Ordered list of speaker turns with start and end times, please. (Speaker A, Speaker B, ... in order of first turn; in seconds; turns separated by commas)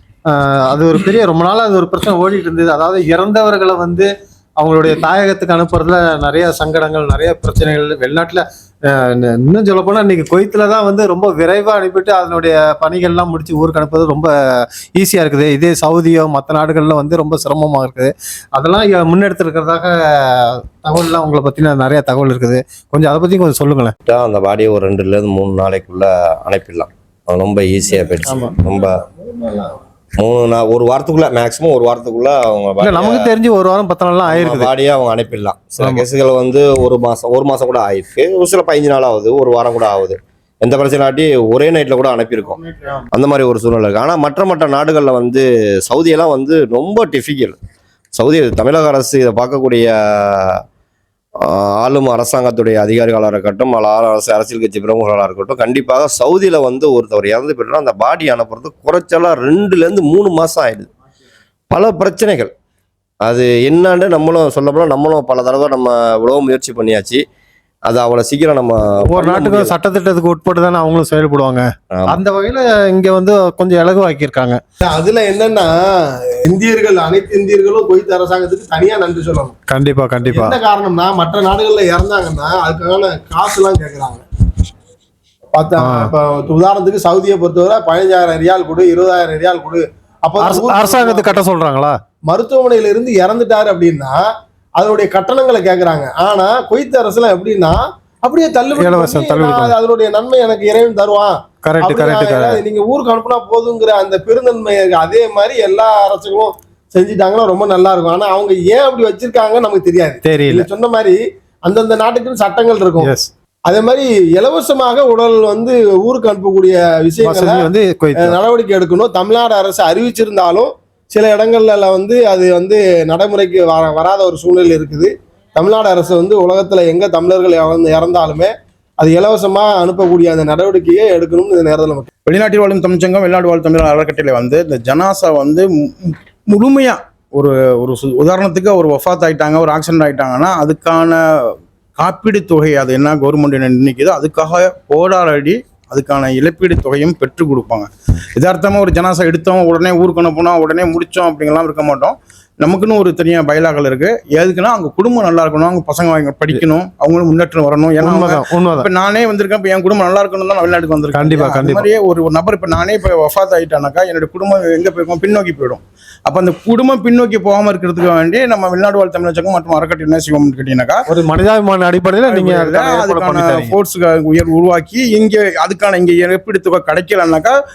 Speaker A: 0.3-14.3, Speaker A: 14.9-23.9, Speaker B: 24.1-28.9, Speaker C: 29.2-29.7, Speaker B: 30.2-33.4, Speaker A: 32.8-34.7, Speaker B: 34.3-47.6, Speaker B: 48.2-50.6, Speaker B: 51.4-60.9, Speaker B: 61.7-62.5, Speaker B: 63.2-67.2, Speaker B: 67.9-69.8, Speaker A: 69.1-74.6, Speaker B: 71.9-72.2, Speaker C: 74.8-79.5, Speaker A: 79.7-80.5, Speaker C: 80.3-84.2, Speaker C: 85.5-91.4, Speaker A: 85.8-86.1, Speaker A: 90.4-92.0, Speaker C: 92.3-94.2, Speaker C: 94.8-113.1, Speaker A: 98.8-99.7, Speaker A: 101.6-102.6, Speaker A: 110.2-110.7, Speaker A: 113.0-113.3, Speaker C: 113.7-132.1, Speaker A: 117.2-118.4, Speaker D: 132.3-171.1, Speaker A: 158.0-158.9, Speaker A: 161.1-161.9, Speaker A: 171.1-173.8, Speaker D: 172.3-177.5